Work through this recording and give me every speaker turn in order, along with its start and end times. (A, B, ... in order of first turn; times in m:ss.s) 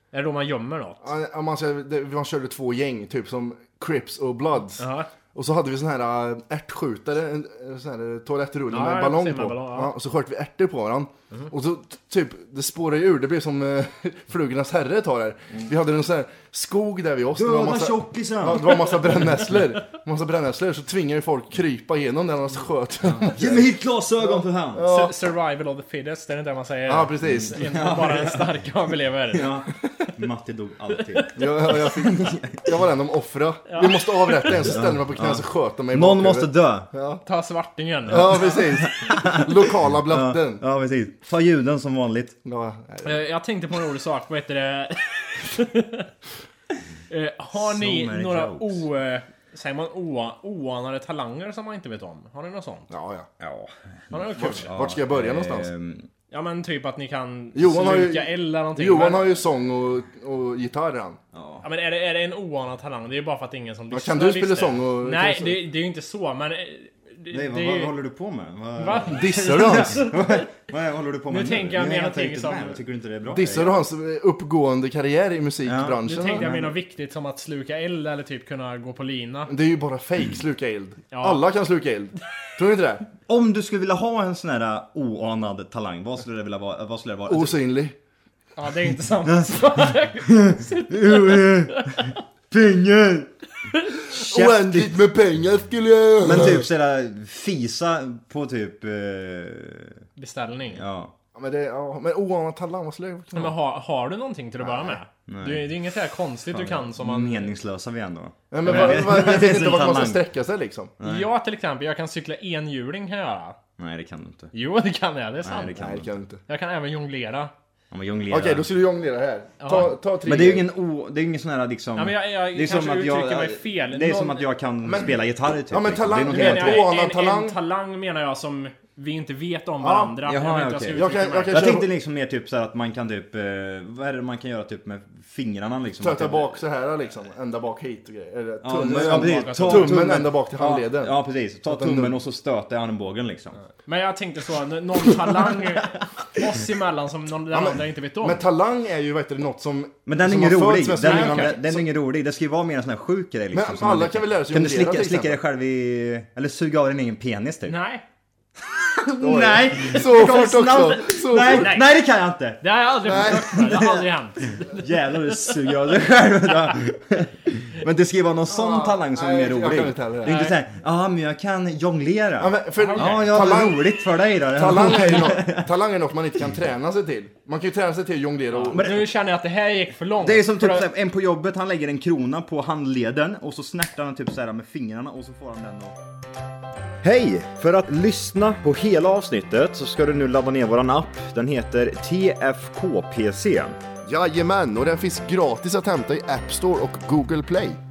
0:00.1-0:01.1 A
0:01.0-0:25.2 B
0:04.8-0:05.1 A
0:08.7-0:09.9 A
0:17.4-0:19.3 C
0:23.0-0:24.9 C
0:24.8-0:29.6 A
0:26.9-0:27.7 B
0:27.4-0:28.6 C
0:29.3-0:32.6 C
0:31.0-0:31.3 A
0:31.4-0:37.2 B
0:33.7-0:34.7 A
0:34.6-0:36.9 C
0:37.2-0:38.7 A
0:38.1-0:40.6 B
0:38.8-0:42.4 C
0:42.4-0:43.2 B
0:43.0-0:46.1 A
0:47.1-0:52.9 A
0:47.6-0:48.9 C
0:52.9-0:53.3 B
0:53.4-0:56.1 C
0:54.1-0:54.7 A
0:54.4-0:55.7 B
0:56.3-0:59.3 A
0:57.6-1:01.2 B
1:01.3-1:01.6 C
1:01.6-1:07.9 A
1:03.9-1:05.6 B
1:07.3-1:13.7 C
1:08.8-1:10.5 A
1:09.0-1:10.1 B
1:11.3-1:12.8 A
1:13.3-1:16.7 B
1:15.6-1:16.6 C
1:16.1-1:19.5 A
1:19.5-1:23.1 B
1:21.1-1:21.4 A
1:23.3-1:27.6 C
1:27.3-1:28.0 B
1:28.6-1:32.2 A
1:30.3-1:33.3 C
1:34.1-1:35.0 C
1:34.1-1:36.6 B
1:36.2-1:40.0 C
1:40.2-1:40.8 A
1:40.8-1:41.1 C
1:41.4-1:43.6 B
1:43.3-1:47.5 A
1:44.6-1:45.0 B
1:45.3-1:45.8 C
1:46.5-1:50.2 C
1:48.5-1:50.9 B
1:51.0-1:51.3 C
1:51.0-1:53.6 A
1:53.8-1:54.5 C
1:54.5-1:55.8 A
1:55.4-1:56.2 C
1:55.8-1:56.4 B
1:56.5-1:57.5 A
1:57.9-1:58.7 C
1:58.3-2:00.7 B
1:59.6-1:59.9 A
2:00.2-2:06.9 C
2:02.0-2:04.5 A
2:04.8-2:07.6 B
2:06.2-2:11.6 A
2:09.8-2:10.2 B
2:10.3-2:16.6 C
2:10.9-2:11.9 B
2:16.0-2:22.2 B
2:18.6-2:23.6 C
2:19.1-2:20.0 A
2:23.9-2:28.4 A
2:27.5-2:31.9 B
2:30.1-2:37.8 C
2:31.1-2:31.6 A
2:33.5-2:35.4 B
2:37.7-2:38.0 A
2:38.6-2:55.7 C
2:39.2-2:41.8 B
2:41.4-2:41.9 A
2:42.6-2:45.6 A
2:43.0-2:43.6 B
2:48.5-2:50.4 B
2:50.3-2:50.6 A
2:52.4-2:54.0 B
2:52.8-2:53.3 A
2:54.5-2:58.9 B
2:58.6-3:00.9 A
2:58.7-2:59.1 C
3:00.2-3:06.0 C
3:07.0-3:13.8 C
3:14.0-3:17.8 B